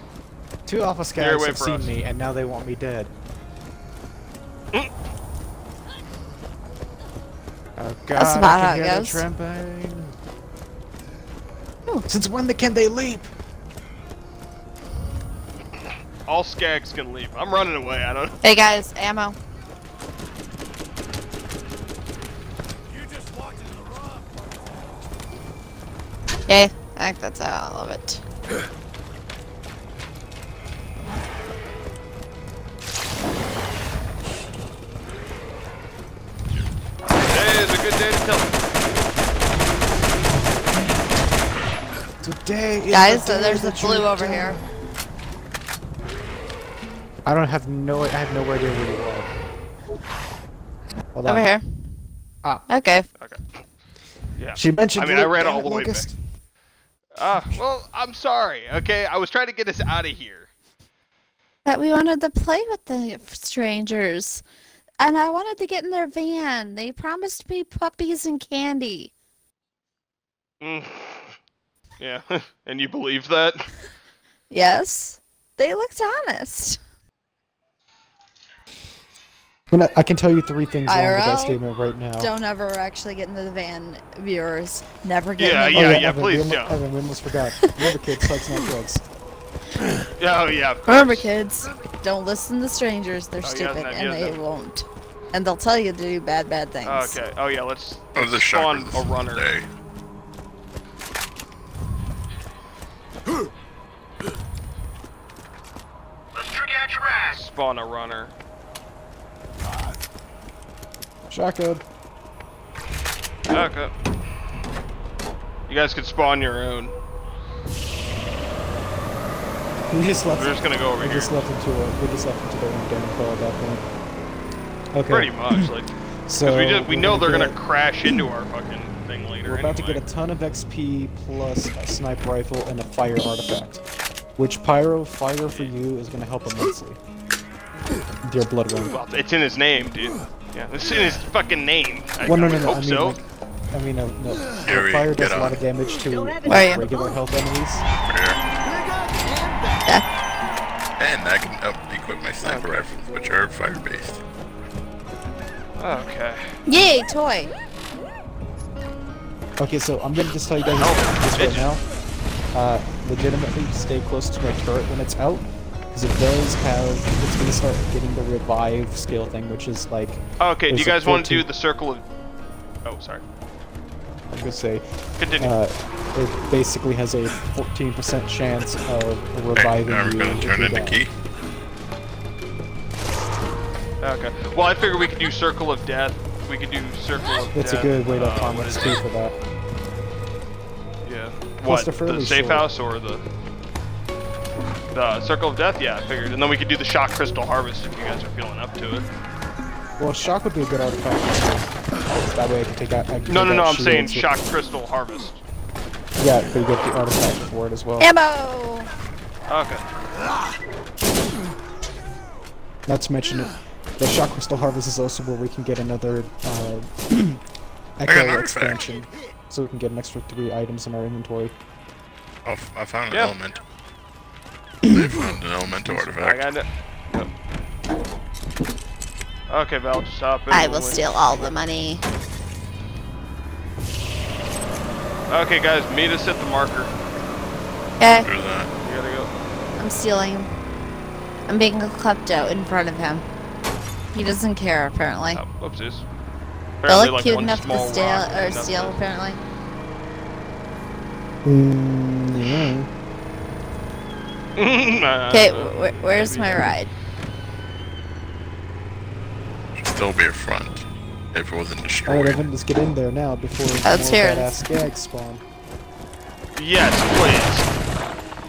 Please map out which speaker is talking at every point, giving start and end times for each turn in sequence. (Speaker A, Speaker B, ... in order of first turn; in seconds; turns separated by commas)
Speaker A: 0.7-3.1, Speaker B: 1.2-1.9, Speaker A: 7.8-10.1, Speaker C: 8.2-9.2, Speaker A: 12.1-13.3, Speaker B: 16.2-18.4, Speaker C: 18.4-19.4, Speaker C: 26.5-28.2, Speaker B: 37.0-38.6, Speaker A: 42.2-44.6, Speaker C: 42.9-44.6, Speaker A: 47.2-49.3, Speaker A: 51.1-51.5, Speaker C: 51.2-51.6, Speaker C: 52.7-53.1, Speaker B: 53.2-53.6, Speaker B: 54.4-56.1, Speaker A: 54.5-56.1, Speaker B: 57.1-60.5, Speaker C: 61.6-64.4, Speaker C: 65.0-69.1, Speaker B: 70.6-71.3, Speaker B: 72.0-73.7, Speaker C: 74.5-76.8, Speaker A: 79.7-82.3, Speaker C: 80.8-81.6, Speaker C: 82.2-86.1, Speaker B: 85.4-86.8, Speaker A: 85.7-89.0, Speaker B: 90.2-91.3, Speaker C: 90.9-97.2, Speaker B: 93.4-94.4, Speaker B: 96.8-99.4, Speaker D: 98.1-99.7, Speaker B: 107.1-108.3, Speaker A: 111.3-111.8, Speaker B: 113.5-113.9, Speaker B: 115.7-116.9, Speaker A: 119.9-123.8, Speaker B: 120.3-121.3, Speaker A: 124.9-125.7, Speaker B: 125.1-130.0, Speaker A: 126.3-128.2, Speaker A: 129.4-133.8, Speaker A: 134.3-137.0, Speaker B: 135.4-135.7, Speaker A: 138.2-139.0, Speaker B: 138.9-143.2, Speaker A: 142.2-147.8, Speaker D: 144.7-145.6, Speaker C: 146.5-146.8, Speaker D: 148.1-148.4, Speaker D: 151.0-154.2, Speaker B: 152.4-152.9, Speaker B: 155.8-156.5, Speaker C: 156.7-157.5, Speaker A: 159.6-161.8, Speaker B: 160.8-161.7, Speaker A: 162.5-171.5, Speaker B: 170.4-172.0, Speaker B: 172.8-173.2, Speaker A: 174.3-174.8, Speaker B: 175.2-175.5, Speaker A: 175.4-181.0, Speaker D: 179.5-181.1, Speaker B: 184.0-189.0, Speaker A: 187.5-189.3, Speaker B: 191.0-193.2, Speaker A: 191.6-192.7, Speaker B: 194.9-199.1, Speaker A: 200.0-201.7, Speaker A: 202.3-204.3, Speaker B: 203.3-205.4, Speaker A: 206.2-208.1, Speaker C: 208.0-208.9, Speaker B: 209.5-209.8, Speaker A: 212.8-217.4, Speaker A: 218.0-221.5, Speaker D: 218.1-218.8, Speaker D: 222.4-223.6, Speaker D: 224.9-226.5, Speaker A: 225.8-226.1, Speaker B: 226.2-227.3, Speaker B: 229.5-231.5, Speaker C: 230.5-232.0, Speaker B: 235.3-236.9, Speaker C: 238.0-238.3, Speaker D: 238.2-238.7, Speaker B: 238.8-239.3, Speaker C: 239.8-240.5, Speaker C: 241.5-243.2, Speaker C: 244.1-245.4, Speaker B: 245.3-246.0, Speaker B: 246.8-249.0, Speaker C: 246.9-249.4, Speaker A: 251.4-252.9, Speaker B: 254.6-256.8, Speaker C: 255.3-256.9, Speaker D: 259.8-262.4, Speaker A: 262.1-265.4, Speaker C: 263.8-264.6, Speaker B: 266.5-267.7